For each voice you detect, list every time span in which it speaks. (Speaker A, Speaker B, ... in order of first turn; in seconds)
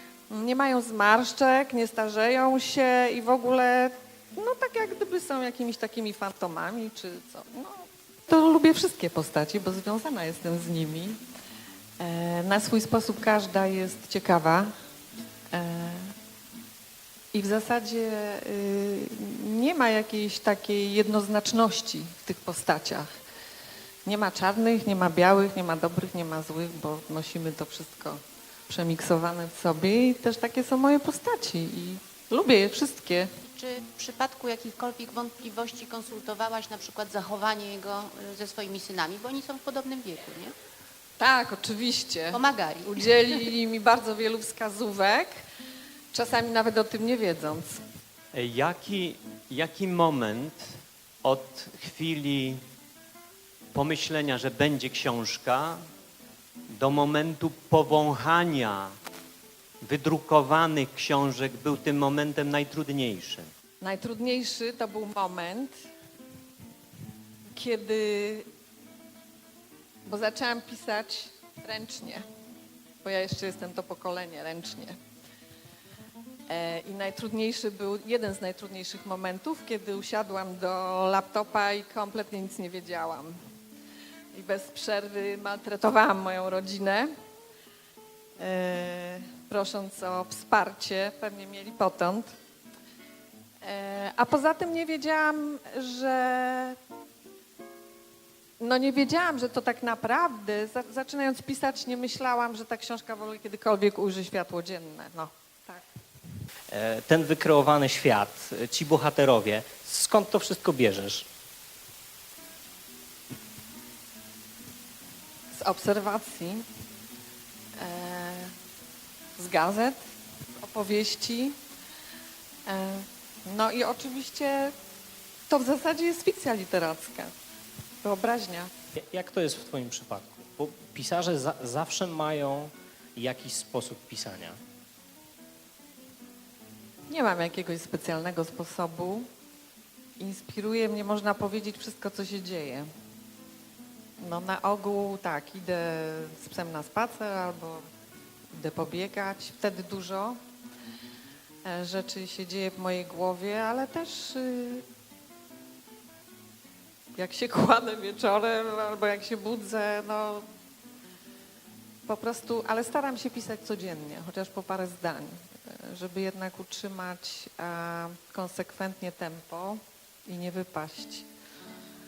Speaker A: 0.3-11.2, 12.0-14.7, 15.5-16.1, 17.3-23.1, 24.0-33.3, 41.2-45.4, 46.1-47.8, 63.8-65.8, 67.5-68.5, 70.0-72.2, 73.0-75.0, 76.5-83.4, 84.3-87.1, 88.4-92.3, 93.6-96.8, 98.6-105.8, 115.5-116.6, 117.8-118.5, 119.4-120.0, 120.6-121.5, 122.7-124.7, 125.5-127.3, 128.0-128.7, 137.1-139.3, 140.2-142.9, 144.2-147.8, 148.5-150.4, 151.6-154.8, 157.2-160.4, 162.1-171.3
Speaker B: 33.5-40.5, 42.3-43.2
Speaker C: 48.3-50.6, 51.2-52.6, 53.7-55.8, 56.7-58.9, 59.8-63.5
Speaker D: 106.7-111.3, 129.0-134.6